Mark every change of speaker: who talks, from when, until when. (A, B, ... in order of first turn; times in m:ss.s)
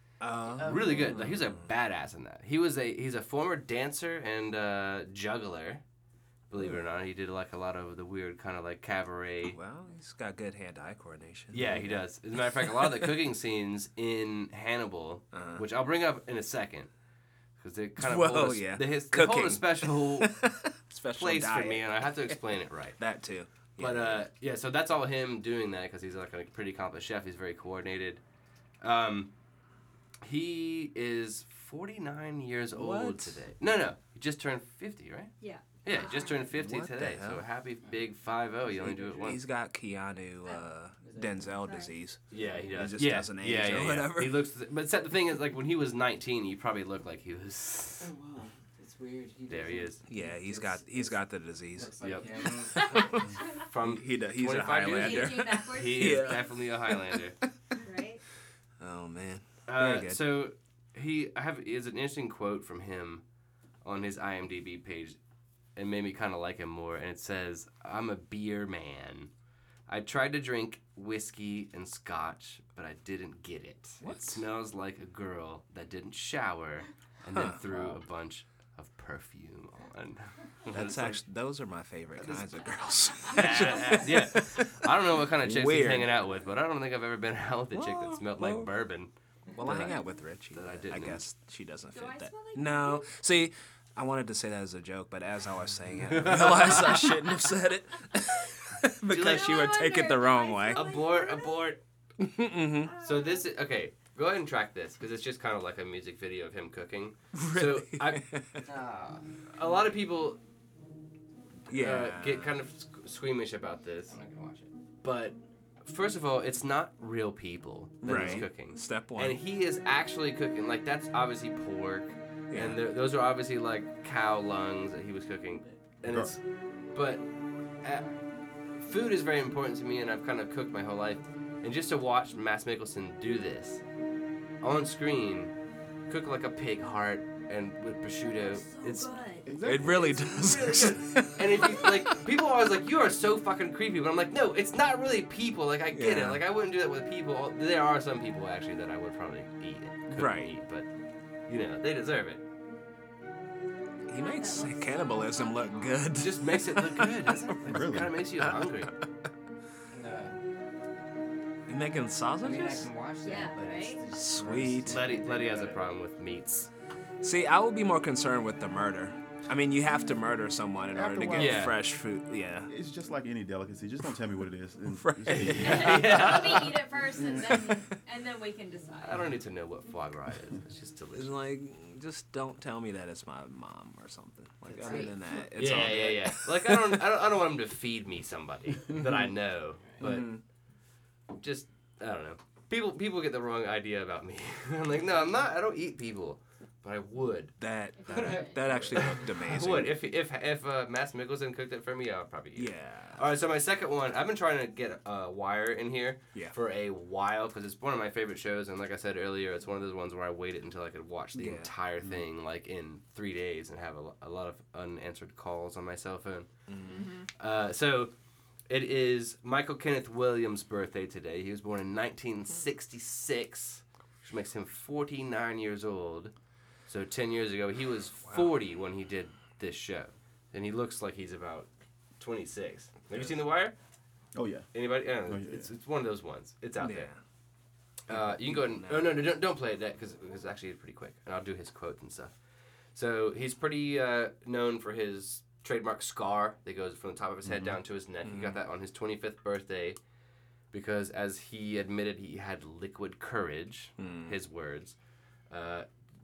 0:00.2-0:01.7 A
0:00.5-0:05.8 B
0:06.5-0:09.6 B
0:09.4-0:12.0 A
0:11.5-0:16.9 B
0:12.6-0:13.1 A
0:15.3-0:15.7 A
0:17.6-0:20.3 B
0:18.0-0:22.4 A
0:21.2-0:23.0 B
0:23.0-0:24.2 A
0:23.8-0:28.2 B
0:28.8-0:29.3 B
0:30.2-0:39.4 B
0:32.7-0:33.4 A
0:35.4-0:36.4 C
0:36.6-0:37.5 A
0:38.7-0:39.2 D
0:38.8-0:44.4 A
0:41.0-0:42.7 D
0:41.6-0:41.9 C
0:42.3-0:48.1 B
0:48.0-0:53.3 D
0:49.5-0:50.0 B
0:50.1-0:52.0 A
0:52.0-0:52.3 B
0:52.7-0:57.2 A
0:53.7-0:57.4 B
0:55.0-0:56.4 C
0:57.8-0:58.2 C
0:58.8-1:00.2 A
0:59.7-1:03.2 B
1:03.8-1:05.2 B
1:05.8-1:09.3 B
1:09.9-1:21.2 B
1:14.0-1:14.4 A
1:17.3-1:18.0 A
1:20.7-1:26.2 A
1:22.2-1:30.0 B
1:27.7-1:28.7 A
1:29.5-1:41.0 A
1:30.5-1:31.2 B
1:31.9-1:33.1 C
1:36.1-1:37.1 B
1:39.1-1:39.7 B
1:39.2-1:41.6 C
1:40.7-1:41.8 B
1:42.2-1:43.0 A
1:42.8-1:43.5 C
1:43.0-1:48.2 B
1:47.3-1:48.6 A
1:48.6-1:49.3 D
1:49.5-1:50.4 B
1:51.7-1:52.6 A
1:51.7-1:54.2 B
1:54.1-1:54.7 D
1:55.0-2:06.4 B
1:58.0-1:59.4 A
2:02.5-2:02.8 A
2:06.0-2:06.3 E
2:06.9-2:07.2 B
2:07.8-2:08.2 B
2:08.8-2:13.8 B
2:14.6-2:15.5 B
2:16.1-2:19.1 B
2:18.3-2:19.5 C
2:19.5-2:20.6 E
2:19.6-2:22.2 A
2:19.6-2:30.9 B
2:25.9-2:26.4 A
2:30.1-2:30.5 A
2:31.5-2:32.4 B
2:34.1-2:36.1 C
2:34.1-2:37.9 A
2:36.2-2:38.9 B
2:37.7-2:38.2 E
2:38.4-2:38.9 A
2:39.9-2:40.4 D
2:41.7-2:42.9 A
2:42.4-2:45.8 D
2:43.2-2:44.0 C
2:44.1-2:45.0 A
2:44.9-2:46.7 B
2:47.2-2:52.7 A
2:50.9-2:51.7 E
2:51.3-2:51.8 B
2:52.7-2:56.0 E
2:54.9-2:56.7 A
2:55.3-2:56.7 B
2:55.6-2:59.3 C
2:57.5-2:57.8 A
2:59.0-3:01.3 B
3:01.1-3:07.0 A
3:04.6-3:05.5 D
3:05.6-3:10.3 B
3:10.0-3:10.4 A
3:11.3-3:17.6 B
3:17.6-3:20.0 A
3:18.0-3:18.6 C
3:18.1-3:19.4 D
3:19.4-3:36.5 B
3:22.6-3:23.3 A
3:31.3-3:31.7 A
3:36.7-3:37.1 A
3:36.9-3:37.3 C
3:37.4-3:38.1 B
3:38.7-3:46.3 B
3:46.9-3:53.8 B
3:54.3-3:54.7 E
3:54.7-3:57.1 B
3:55.2-3:55.7 E
3:56.8-3:57.2 A
3:58.1-4:02.3 B
3:58.1-3:59.2 A
4:02.9-4:10.0 B
4:07.5-4:07.7 E
4:08.2-4:08.6 A
4:10.7-4:15.0 B
4:14.0-4:14.4 A
4:15.5-4:15.9 B